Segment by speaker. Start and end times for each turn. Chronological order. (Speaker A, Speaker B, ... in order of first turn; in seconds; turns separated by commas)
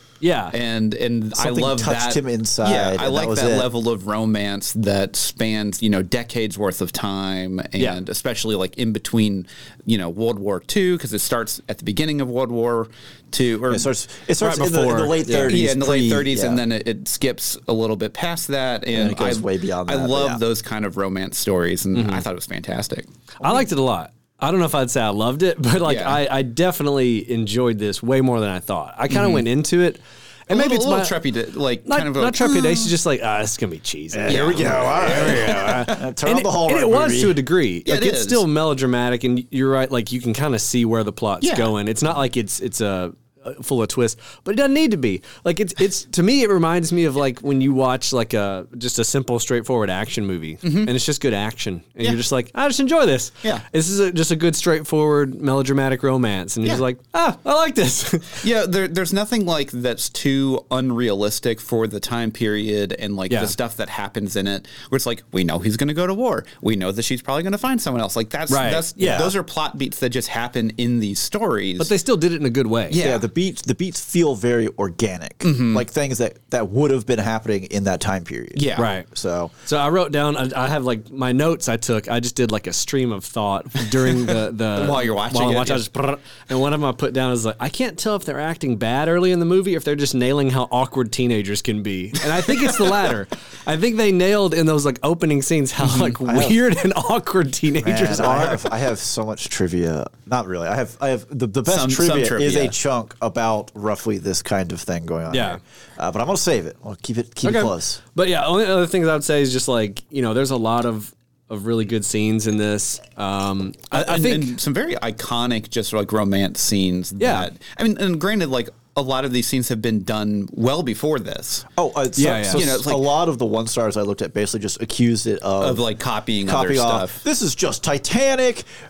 Speaker A: 0.2-0.6, Speaker B: 0.5-13.9, Speaker C: 1.4-3.7, Speaker C: 13.7-16.6, Speaker A: 14.4-15.6, Speaker B: 15.4-23.1, Speaker C: 18.9-20.4, Speaker A: 21.9-22.2, Speaker A: 23.4-31.1, Speaker B: 25.8-26.2, Speaker B: 29.1-29.4, Speaker B: 30.5-32.9, Speaker A: 31.9-58.4, Speaker C: 34.1-37.4, Speaker B: 34.3-36.1, Speaker B: 37.8-38.4, Speaker B: 41.4-41.7, Speaker B: 50.6-50.9, Speaker B: 58.4-71.9, Speaker A: 63.3-63.5, Speaker A: 68.5-69.3, Speaker C: 69.0-69.3, Speaker A: 71.8-73.0, Speaker B: 72.9-73.3, Speaker C: 73.0-79.5, Speaker B: 75.4-75.8, Speaker B: 78.5-78.9, Speaker A: 78.8-79.1, Speaker A: 79.7-98.7, Speaker B: 84.2-85.8, Speaker B: 92.5-93.0, Speaker C: 96.2-96.6, Speaker C: 97.8-108.0, Speaker B: 101.7-102.7, Speaker A: 105.3-105.6, Speaker A: 107.4-114.5, Speaker B: 113.9-121.7, Speaker A: 117.2-117.5, Speaker C: 121.7-125.8, Speaker A: 122.2-122.7, Speaker B: 122.5-123.1, Speaker B: 125.6-127.2, Speaker C: 126.5-128.7